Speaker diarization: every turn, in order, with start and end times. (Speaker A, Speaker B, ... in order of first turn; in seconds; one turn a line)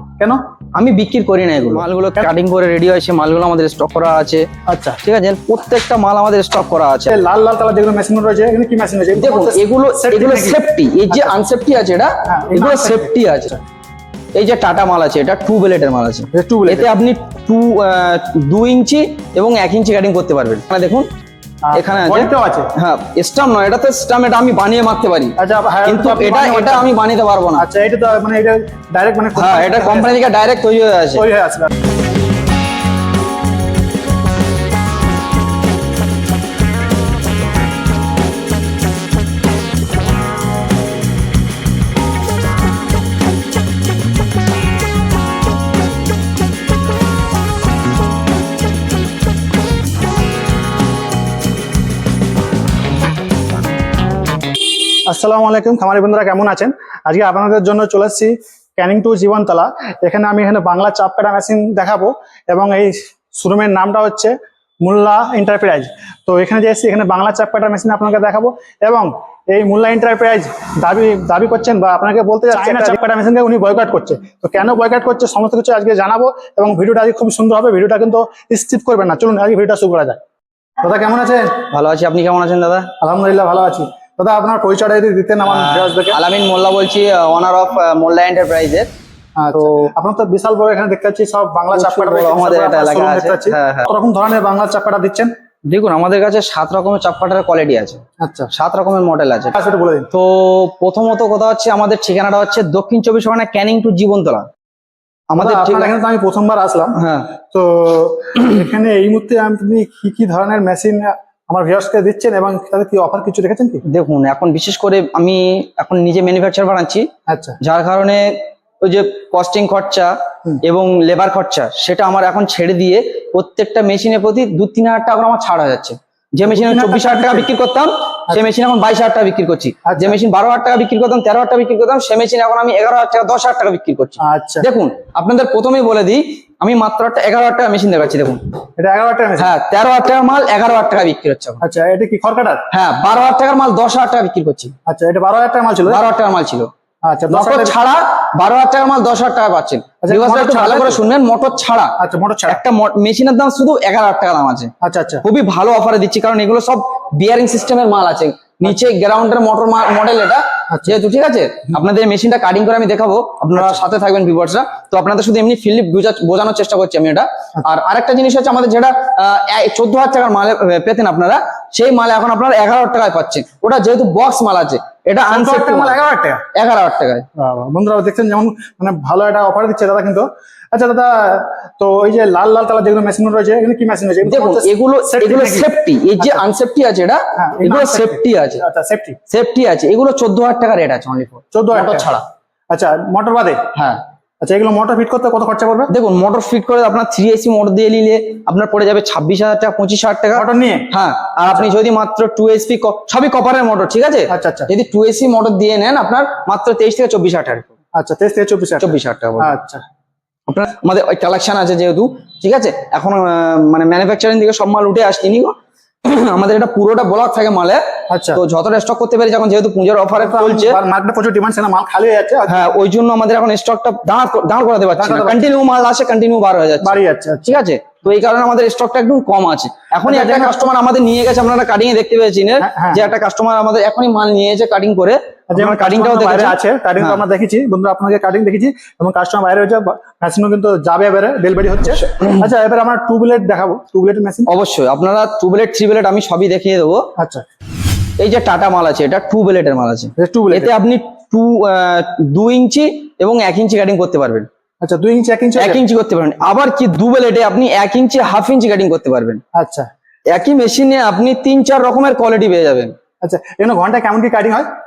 Speaker A: 0.8-4.5
Speaker B: 4.7-5.0
Speaker A: 5.0-7.2
Speaker B: 7.1-11.4
Speaker A: 9.2-13.5
Speaker B: 12.2-13.6
Speaker A: 14.3-21.1
Speaker B: 16.3-16.9
Speaker B: 21.6-22.7
Speaker A: 21.7-27.6
Speaker B: 25.4-26.9
Speaker B: 27.6-30.2
Speaker A: 29.4-31.2
Speaker B: 31.1-31.7
Speaker B: 55.1-80.2
Speaker A: 72.5-72.9
Speaker B: 80.8-81.6
Speaker A: 81.7-82.9
Speaker B: 83.0-86.2
Speaker A: 85.4-88.9
Speaker B: 89.4-95.3
Speaker A: 89.5-89.9
Speaker A: 91.7-93.9
Speaker A: 95.7-98.0
Speaker B: 98.2-98.5
Speaker A: 98.5-99.5
Speaker B: 99.5-100.1
Speaker A: 100.1-104.5
Speaker A: 105.3-105.9
Speaker B: 105.3-107.0
Speaker A: 107.0-107.3
Speaker B: 107.5-113.8
Speaker A: 113.8-117.1
Speaker B: 117.3-117.6
Speaker A: 117.6-120.1
Speaker A: 120.6-138.4
Speaker B: 126.4-127.5
Speaker B: 129.8-130.2
Speaker B: 134.2-134.7
Speaker B: 138.8-139.5
Speaker A: 139.4-141.6
Speaker B: 141.6-142.7
Speaker A: 142.7-144.7
Speaker B: 144.8-146.0
Speaker A: 145.9-146.7
Speaker B: 147.0-147.8
Speaker A: 147.3-151.9
Speaker B: 150.0-151.0
Speaker B: 152.0-152.6
Speaker A: 152.5-154.7
Speaker B: 154.8-155.2
Speaker A: 155.2-176.0
Speaker B: 160.7-161.0
Speaker B: 163.6-163.8
Speaker B: 175.2-176.4
Speaker A: 176.5-177.2
Speaker B: 177.4-186.4
Speaker A: 184.2-188.6
Speaker B: 187.4-189.2
Speaker A: 189.3-192.2
Speaker B: 191.5-192.1
Speaker B: 192.7-193.6
Speaker A: 193.7-194.0
Speaker B: 194.4-195.9
Speaker A: 195.9-207.7
Speaker B: 200.3-200.9
Speaker B: 204.3-204.7
Speaker B: 208.0-209.8
Speaker A: 208.8-209.5
Speaker A: 210.5-220.8
Speaker B: 218.1-218.4
Speaker B: 220.2-222.7
Speaker A: 222.5-237.2
Speaker B: 225.0-225.4
Speaker B: 226.8-227.6
Speaker B: 230.0-230.6
Speaker B: 232.6-233.1
Speaker B: 235.5-244.5
Speaker A: 242.0-242.4
Speaker A: 244.5-247.1
Speaker B: 247.2-247.4
Speaker A: 248.2-254.5
Speaker B: 250.2-250.7
Speaker B: 254.8-255.8
Speaker A: 255.6-259.4
Speaker B: 259.5-259.9
Speaker A: 260.3-262.9
Speaker B: 263.2-264.7